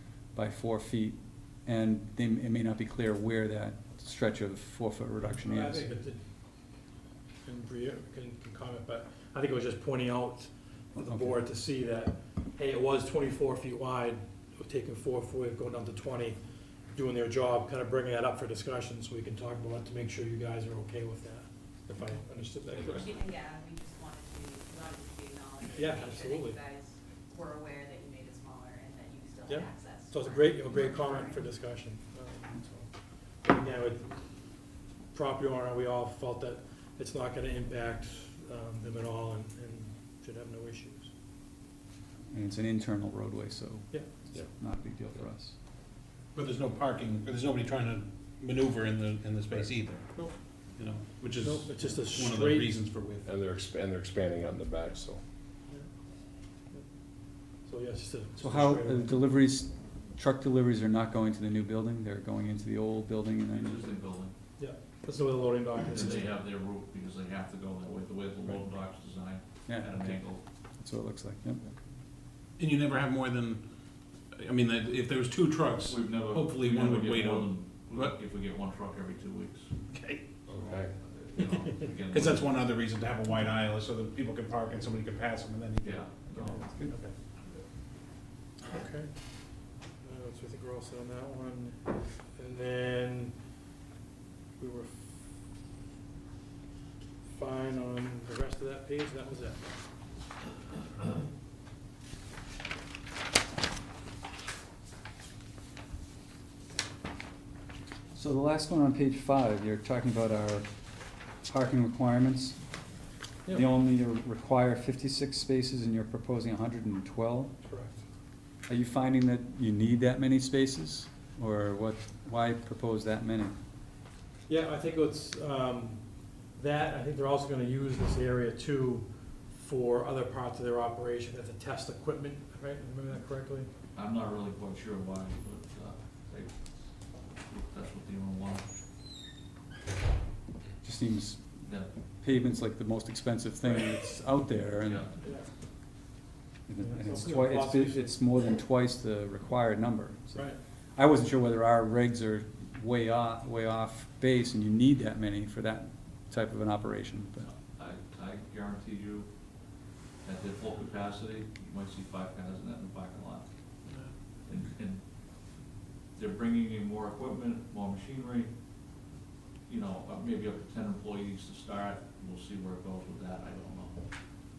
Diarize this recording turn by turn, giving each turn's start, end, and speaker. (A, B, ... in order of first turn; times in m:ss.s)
0:00.4-0:05.9 A
0:05.2-0:06.2 B
0:07.4-0:16.4 B
0:11.0-0:11.4 A
0:16.9-0:23.1 B
0:22.7-0:23.2 C
0:23.0-0:31.4 D
0:25.7-0:26.6 B
0:29.5-0:32.7 B
0:32.5-0:32.8 A
0:33.4-0:34.2 B
0:35.1-0:41.1 B
0:42.3-0:45.6 A
0:46.4-0:53.3 E
0:51.4-0:52.7 B
0:53.3-0:55.2 F
0:57.7-0:59.2 B
0:58.4-1:03.8 A
1:03.5-1:04.3 C
1:04.6-1:06.3 B
1:05.9-1:10.4 C
1:09.7-1:10.2 A
1:10.8-1:11.6 A
1:12.6-1:13.6 E
1:14.3-1:18.2 E
1:15.8-1:19.7 C
1:19.9-1:20.2 E
1:20.5-1:20.9 F
1:20.6-1:22.5 C
1:22.1-1:26.2 E
1:25.8-1:26.9 C
1:26.4-1:27.1 B
1:28.6-1:29.1 B
1:30.0-1:33.4 B
1:34.6-1:35.4 B
1:37.2-1:39.6 B
1:48.1-1:50.7 A
1:51.4-1:52.6 A
1:53.5-1:57.5 A
1:57.6-1:58.0 B
1:58.7-2:03.5 A
2:04.5-2:06.0 B
2:06.6-2:13.7 B
2:13.9-2:18.6 C
2:20.8-2:21.4 A
2:21.6-2:21.9 C
2:22.2-2:25.1 A
2:24.8-2:25.2 C
2:26.7-2:37.5 A
2:26.8-2:28.2 B
2:37.4-2:39.3 C
2:40.2-2:43.5 C
2:44.3-2:45.1 C
2:46.1-2:48.5 C
2:49.7-2:54.1 C